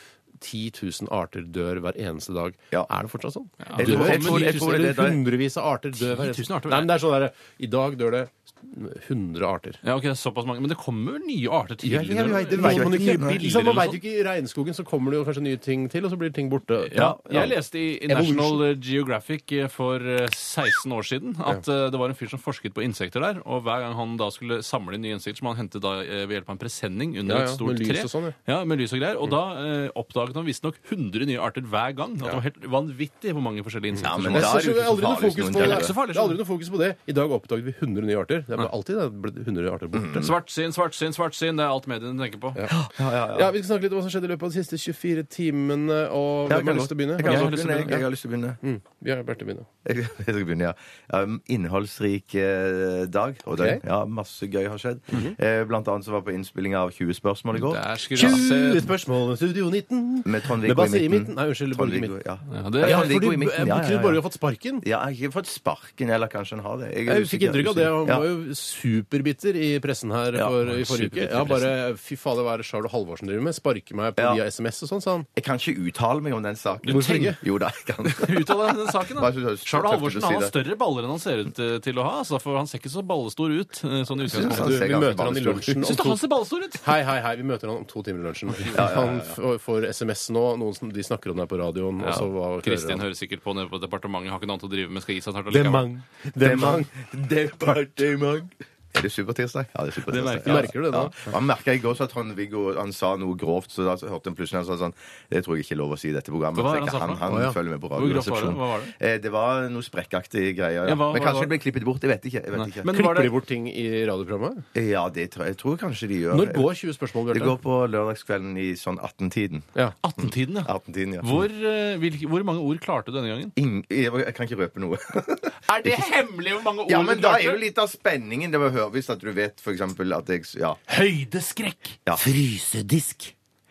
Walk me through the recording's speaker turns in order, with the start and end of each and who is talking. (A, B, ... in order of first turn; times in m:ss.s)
0:00.4-0:09.8 A
0:03.6-0:04.7 B
0:03.8-0:05.2 C
0:06.0-0:06.9 B
0:09.8-0:14.0 B
0:11.8-0:17.5 A
0:12.5-0:13.4 C
0:16.9-0:34.6 B
0:17.0-0:17.5 C
0:18.1-0:18.6 A
0:27.2-0:28.4 A
0:34.0-0:35.9 C
0:34.2-0:40.3 A
0:35.6-0:36.4 B
0:39.9-0:40.3 C
0:40.2-0:42.6 B
0:42.7-0:43.5 C
0:43.3-0:48.0 A
0:46.5-0:48.6 C
0:47.2-0:48.0 B
0:48.6-0:49.7 A
0:49.8-0:58.4 C
0:53.5-0:53.8 A
0:57.6-0:58.9 B
0:58.1-1:02.1 A
1:00.2-1:04.2 C
1:02.5-1:03.1 B
1:02.8-1:04.8 A
1:04.8-1:08.3 C
1:07.1-1:15.3 A
1:10.3-1:11.7 C
1:15.4-1:20.5 C
1:16.9-1:17.4 A
1:18.1-1:24.8 B
1:24.2-1:25.9 C
1:24.4-1:26.2 A
1:25.8-1:26.8 B
1:26.8-1:33.0 A
1:28.7-1:29.4 C
1:32.0-1:35.9 B
1:35.5-1:36.9 A
1:36.4-1:52.9 C
1:40.1-1:40.7 B
1:40.4-1:41.3 A
1:46.6-1:47.2 B
1:47.3-1:47.6 A
1:48.0-1:48.9 B
1:50.8-1:51.5 B
1:52.6-1:53.3 B
1:52.9-1:54.6 A
1:54.7-1:56.7 C
1:56.3-1:57.6 A
1:57.3-2:01.4 C
2:00.0-2:03.5 B
2:03.6-2:06.0 C
2:05.7-2:07.6 B
2:06.9-2:10.8 C
2:10.9-2:12.6 B
2:12.2-2:13.2 A